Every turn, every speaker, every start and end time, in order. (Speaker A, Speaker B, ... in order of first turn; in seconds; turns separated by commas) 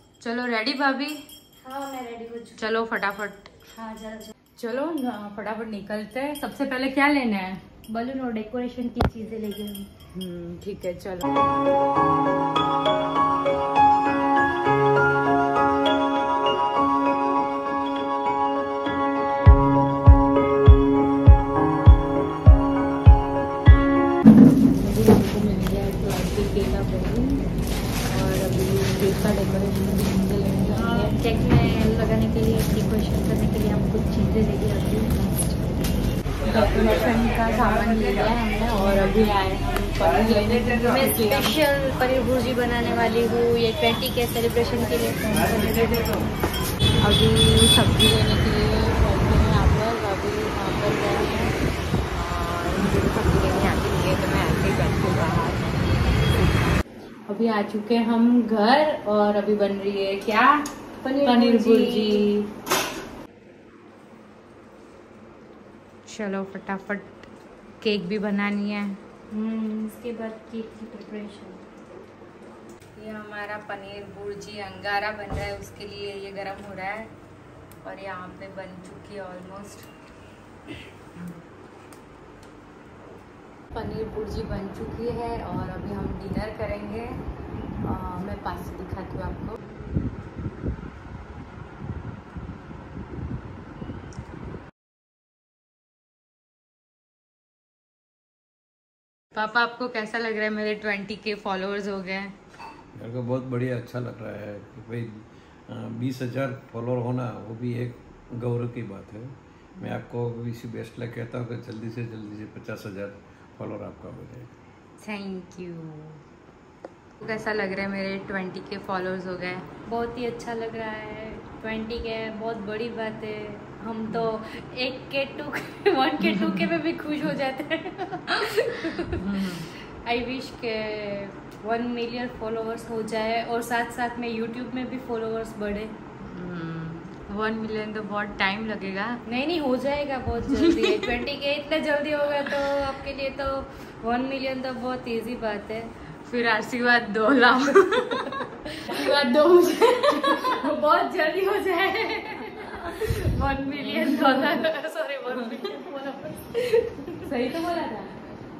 Speaker A: 0.2-1.2, Speaker B: 1.6-2.6, Speaker A: 2.5-3.5, Speaker B: 3.7-4.3, Speaker A: 4.6-7.6, Speaker B: 7.9-9.9, Speaker A: 10.1-11.2, Speaker A: 24.7-27.4, Speaker A: 28.1-31.1, Speaker B: 30.7-35.8, Speaker A: 36.4-41.5, Speaker B: 40.8-46.4, Speaker A: 47.0-51.5, Speaker A: 52.1-56.4, Speaker A: 57.3-60.6, Speaker B: 61.0-62.3, Speaker A: 61.2-62.5, Speaker A: 66.0-67.2, Speaker A: 67.8-69.0, Speaker B: 69.3-71.6, Speaker A: 73.0-77.1, Speaker A: 77.8-79.9, Speaker A: 83.7-87.2, Speaker A: 87.8-89.6, Speaker A: 99.3-102.3, Speaker C: 103.0-114.5, Speaker A: 115.0-116.2, Speaker A: 117.2-119.7, Speaker B: 119.9-135.9, Speaker A: 126.3-126.6, Speaker A: 128.8-129.7, Speaker A: 136.2-139.2, Speaker B: 139.2-145.9, Speaker A: 140.5-141.0, Speaker A: 146.2-150.8, Speaker B: 149.6-157.3, Speaker A: 153.8-154.7, Speaker A: 155.3-155.7, Speaker A: 157.2-158.1